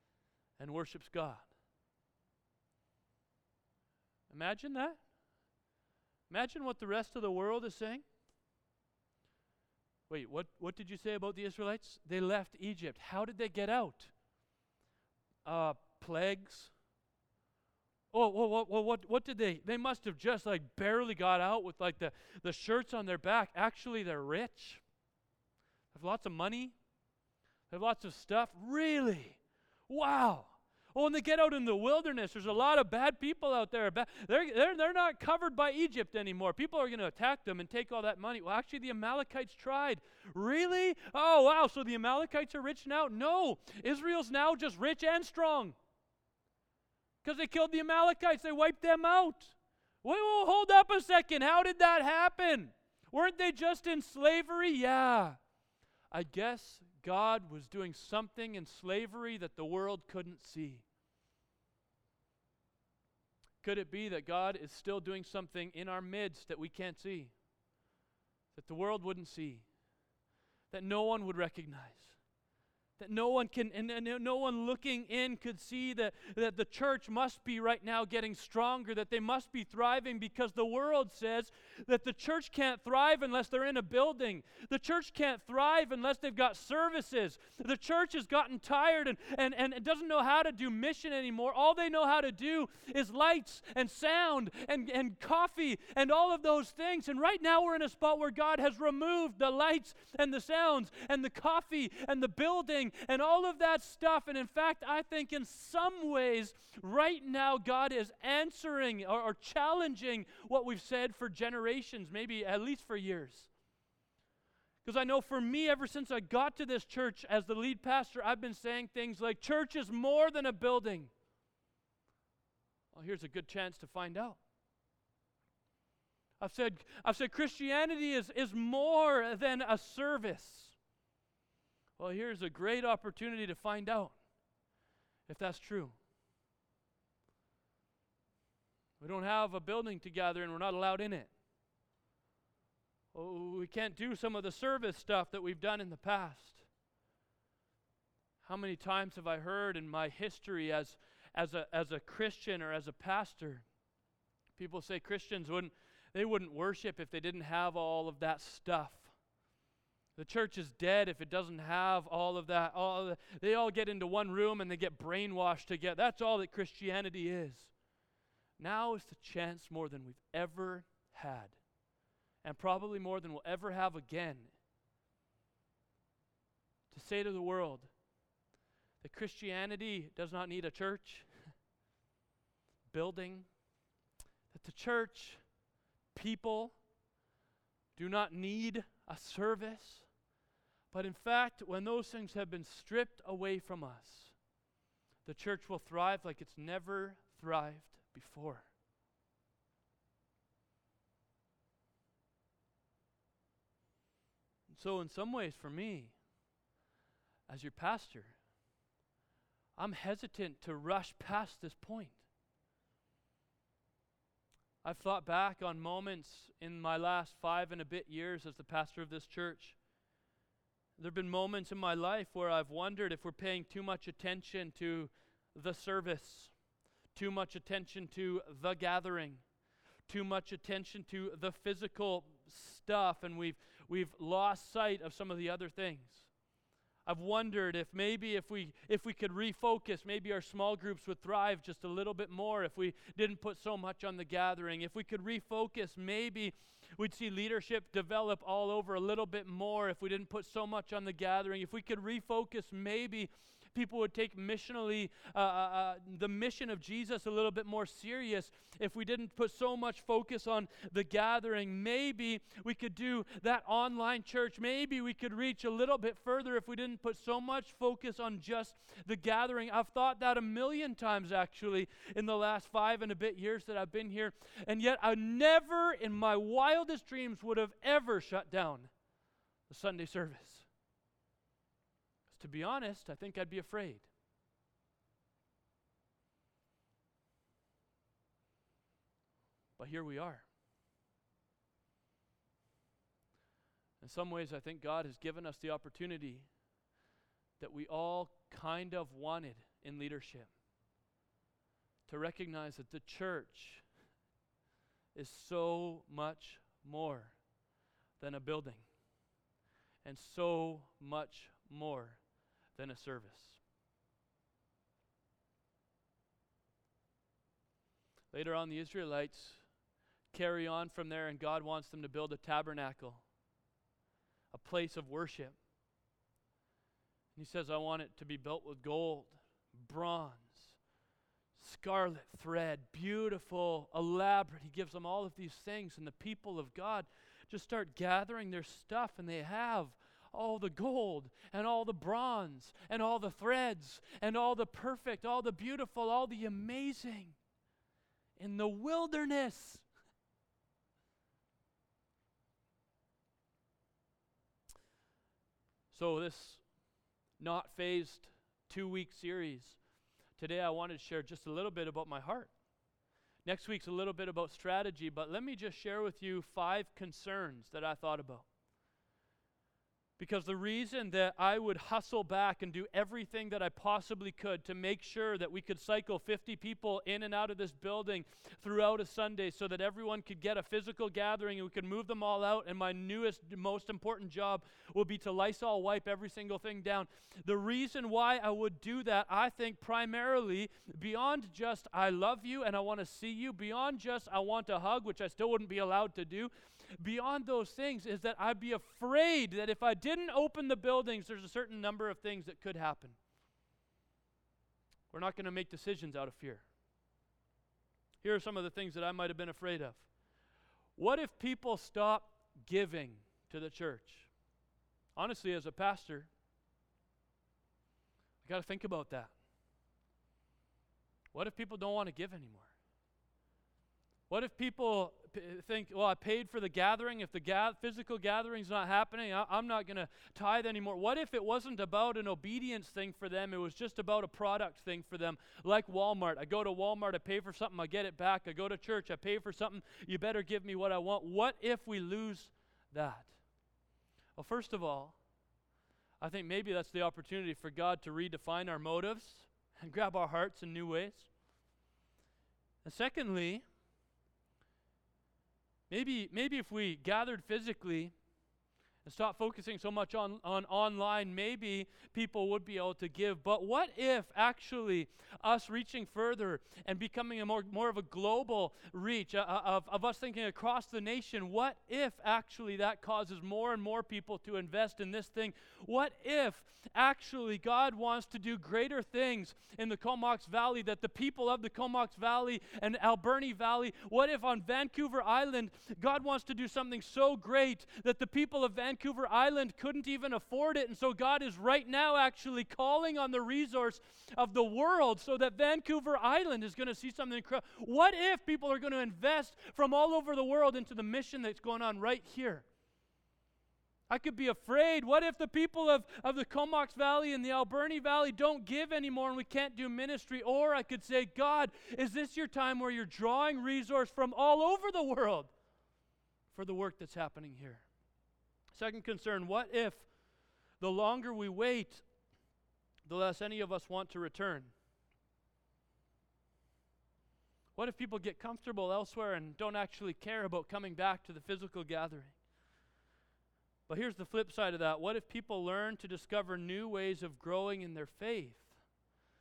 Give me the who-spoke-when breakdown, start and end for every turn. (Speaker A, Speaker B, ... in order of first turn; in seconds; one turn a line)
Speaker A: 0.6-1.5
Speaker A: 4.3-5.0
Speaker A: 6.3-8.0
Speaker A: 10.1-14.1
Speaker A: 15.4-16.7
Speaker A: 18.1-24.8
Speaker A: 25.9-26.7
Speaker A: 27.7-45.8
Speaker A: 47.2-55.4
Speaker A: 56.1-60.8
Speaker A: 63.6-67.3
Speaker A: 68.5-69.7
Speaker A: 70.7-72.2
Speaker A: 73.0-113.5
Speaker A: 114.8-121.1
Speaker A: 122.9-124.4
Speaker A: 126.4-130.7
Speaker A: 132.0-134.1
Speaker A: 135.3-135.9
Speaker A: 139.0-141.3
Speaker A: 143.1-146.6
Speaker A: 148.4-153.6
Speaker A: 154.6-159.1
Speaker A: 160.2-167.7
Speaker A: 168.6-171.6
Speaker A: 172.4-174.5
Speaker A: 176.9-177.9
Speaker A: 179.0-181.3
Speaker A: 182.9-183.5
Speaker A: 184.5-185.4
Speaker A: 186.1-186.7
Speaker A: 187.9-190.1
Speaker A: 190.9-194.3
Speaker A: 195.2-198.7
Speaker A: 204.7-206.1
Speaker A: 207.5-208.4
Speaker A: 209.8-212.2
Speaker A: 214.8-219.8
Speaker A: 221.0-226.5
Speaker A: 227.1-229.4
Speaker A: 230.1-236.3
Speaker A: 237.1-278.9
Speaker A: 279.7-280.7
Speaker A: 282.3-284.1
Speaker A: 289.8-290.4
Speaker A: 294.0-296.5
Speaker A: 297.6-300.5
Speaker A: 302.1-303.8
Speaker A: 305.1-307.4
Speaker A: 308.2-308.8
Speaker A: 310.0-312.2
Speaker A: 312.7-313.6
Speaker A: 318.3-319.6
Speaker A: 320.3-323.2
Speaker A: 324.5-325.6
Speaker A: 327.3-330.8
Speaker A: 331.5-347.4
Speaker A: 348.4-349.9
Speaker A: 355.9-356.6
Speaker A: 357.4-359.8
Speaker A: 360.4-362.5
Speaker A: 363.4-368.4
Speaker A: 370.2-403.2
Speaker A: 405.1-406.6
Speaker A: 408.2-410.1
Speaker A: 410.9-414.3
Speaker A: 415.1-416.3
Speaker A: 418.4-419.3
Speaker A: 421.3-422.7
Speaker A: 424.3-443.3
Speaker A: 444.4-445.1
Speaker A: 446.2-451.3
Speaker A: 452.8-453.6
Speaker A: 455.9-458.1
Speaker A: 459.0-502.6
Speaker A: 504.1-515.5
Speaker A: 516.5-517.8
Speaker A: 518.7-520.1
Speaker A: 520.8-522.0
Speaker A: 523.0-524.7
Speaker A: 527.8-532.3
Speaker A: 533.9-538.7